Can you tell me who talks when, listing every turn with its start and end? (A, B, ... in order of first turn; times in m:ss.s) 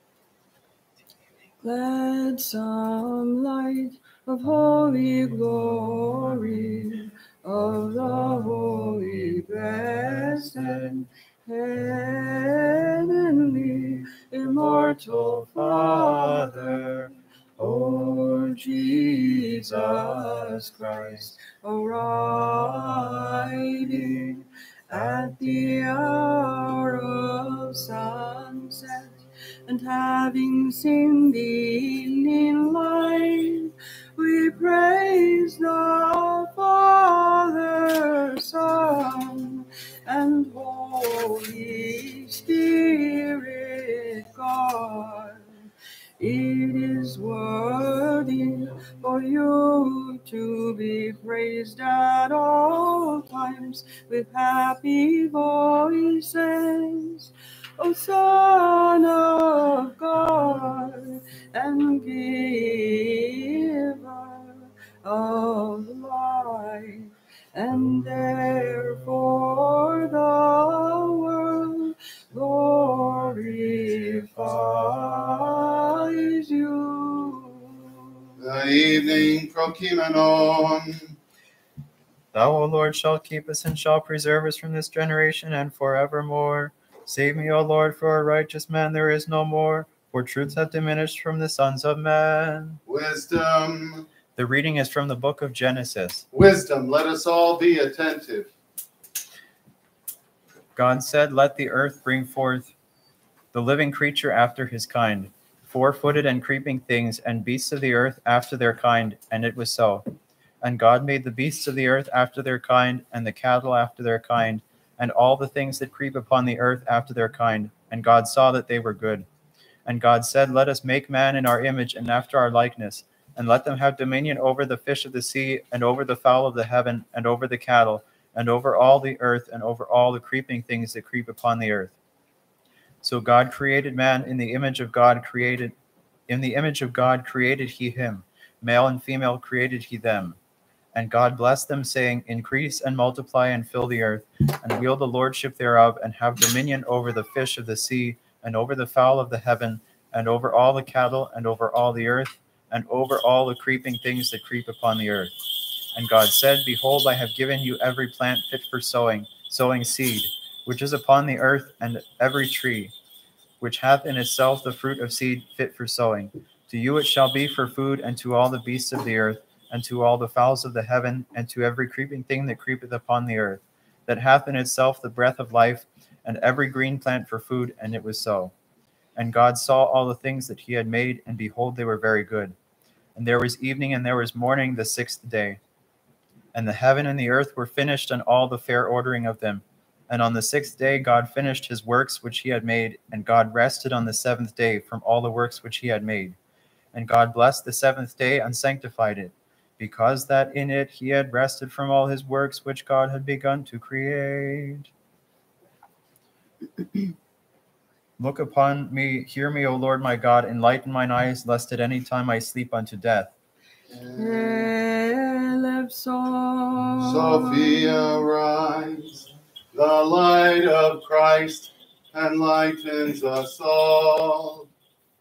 0:01.6-0:45.5 A
0:14.5-0:17.1 B
0:18.0-0:18.3 B
0:19.5-0:21.3 B
0:46.2-1:18.3 A
1:14.7-1:15.4 B
1:18.4-1:21.2 C
1:22.3-1:32.8 B
1:32.9-1:34.1 C
1:34.4-1:36.3 B
1:36.3-1:38.5 C
1:40.8-1:42.7 B
1:43.5-1:50.0 B
1:50.6-1:59.3 B
1:59.8-2:12.0 B
2:13.0-2:15.8 B
2:16.3-2:20.4 B
2:20.9-2:35.3 B
2:35.9-2:42.9 B
2:43.6-2:58.5 B
2:59.2-3:02.6 B
3:03.2-3:05.6 B
3:06.5-3:16.4 B
3:16.9-3:24.9 B
3:28.2-3:33.3 B
3:33.9-3:34.7 C
3:34.2-3:38.3 A
3:37.0-3:44.7 C